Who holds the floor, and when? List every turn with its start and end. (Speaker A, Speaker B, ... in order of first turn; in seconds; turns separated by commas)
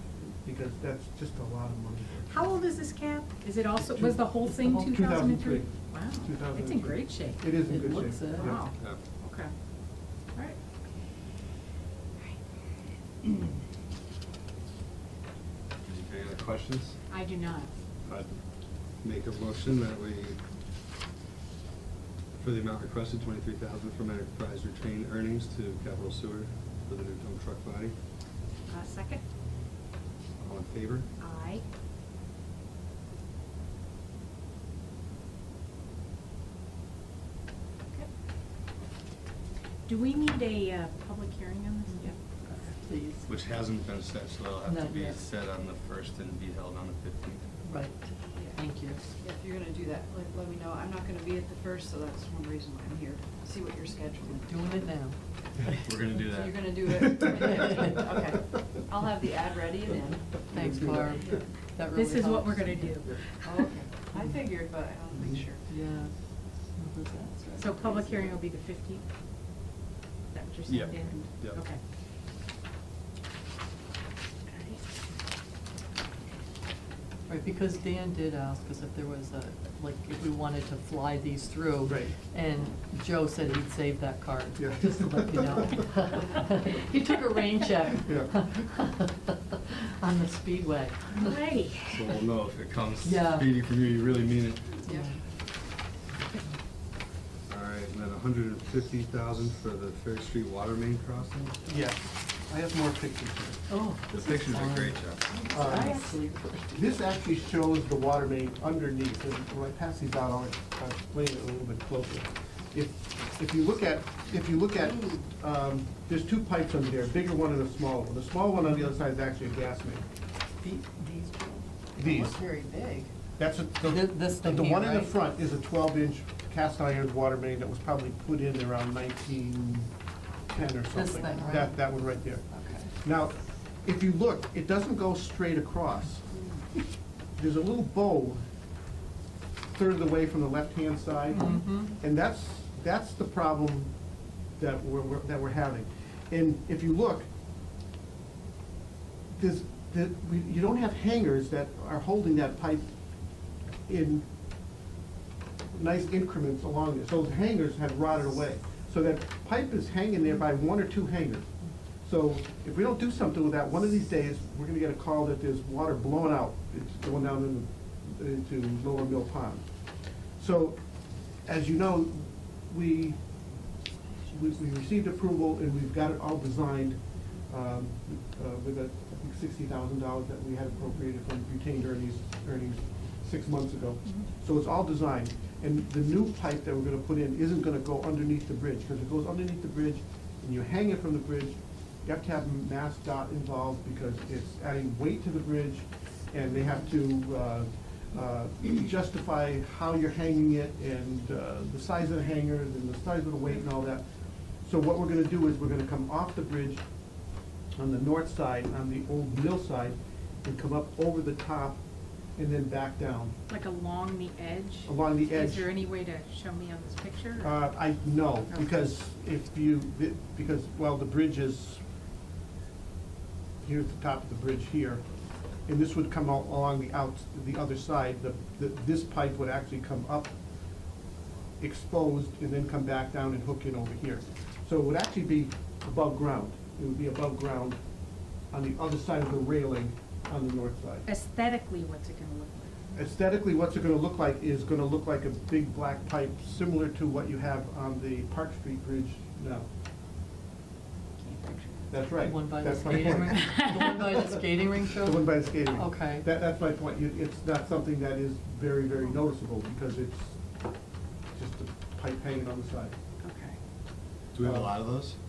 Speaker A: 0.4-2.5, Speaker B: 2.3-7.5, Speaker A: 3.8-8.6, Speaker C: 7.6-8.6, Speaker B: 8.3-9.5, Speaker D: 8.6-9.0, Speaker B: 10.3-10.6, Speaker D: 15.8-17.0, Speaker B: 17.1-17.7, Speaker D: 18.1-18.4, Speaker D: 19.0-20.4, Speaker D: 22.4-27.9, Speaker B: 28.7-29.2, Speaker D: 30.4-31.1, Speaker B: 31.2-31.6, Speaker B: 39.9-42.7, Speaker C: 41.9-43.2, Speaker D: 43.2-47.5, Speaker C: 44.6-45.1, Speaker C: 47.6-49.0, Speaker E: 49.2-54.5, Speaker C: 54.4-55.2, Speaker D: 55.7-57.0, Speaker E: 56.3-60.5, Speaker C: 57.3-58.1, Speaker C: 60.5-63.2, Speaker B: 61.9-63.5, Speaker E: 63.4-65.6, Speaker C: 65.7-66.1, Speaker C: 66.7-67.7, Speaker B: 67.6-69.0, Speaker B: 70.3-71.8, Speaker D: 70.7-71.6, Speaker B: 74.5-74.8, Speaker C: 77.3-91.4, Speaker A: 81.8-82.2, Speaker A: 84.6-85.8, Speaker A: 88.0-88.3, Speaker B: 91.2-92.1, Speaker D: 91.8-94.9, Speaker C: 93.0-93.5, Speaker C: 94.9-95.1, Speaker D: 97.5-101.8, Speaker A: 101.7-103.6, Speaker C: 103.7-106.8, Speaker D: 104.1-105.3, Speaker A: 105.5-106.0, Speaker B: 105.6-106.1, Speaker A: 106.7-120.0, Speaker C: 120.6-123.1, Speaker A: 122.0-122.4, Speaker A: 123.4-129.9, Speaker C: 123.8-125.1, Speaker A: 130.5-132.5, Speaker C: 130.9-132.9, Speaker A: 133.0-136.3, Speaker A: 137.3-138.4, Speaker A: 139.7-143.9, Speaker C: 141.3-141.9, Speaker B: 141.3-141.8, Speaker A: 144.6-147.3, Speaker A: 149.3-152.9, Speaker A: 153.8-154.2, Speaker A: 155.7-161.5, Speaker A: 162.0-170.8, Speaker A: 171.3-173.2, Speaker A: 174.3-204.1, Speaker A: 204.6-206.8, Speaker A: 207.8-211.8, Speaker A: 212.3-213.3, Speaker B: 213.5-217.7, Speaker A: 214.8-215.7, Speaker A: 217.4-221.8, Speaker A: 223.6-225.0, Speaker A: 225.6-230.4, Speaker A: 231.6-237.8, Speaker A: 238.5-241.1, Speaker B: 241.1-242.8, Speaker A: 242.9-249.7, Speaker B: 251.2-252.0, Speaker A: 251.9-254.2, Speaker C: 252.2-256.3, Speaker A: 255.0-260.5, Speaker A: 261.3-262.9, Speaker B: 263.2-263.6, Speaker D: 264.3-265.1, Speaker A: 264.4-264.8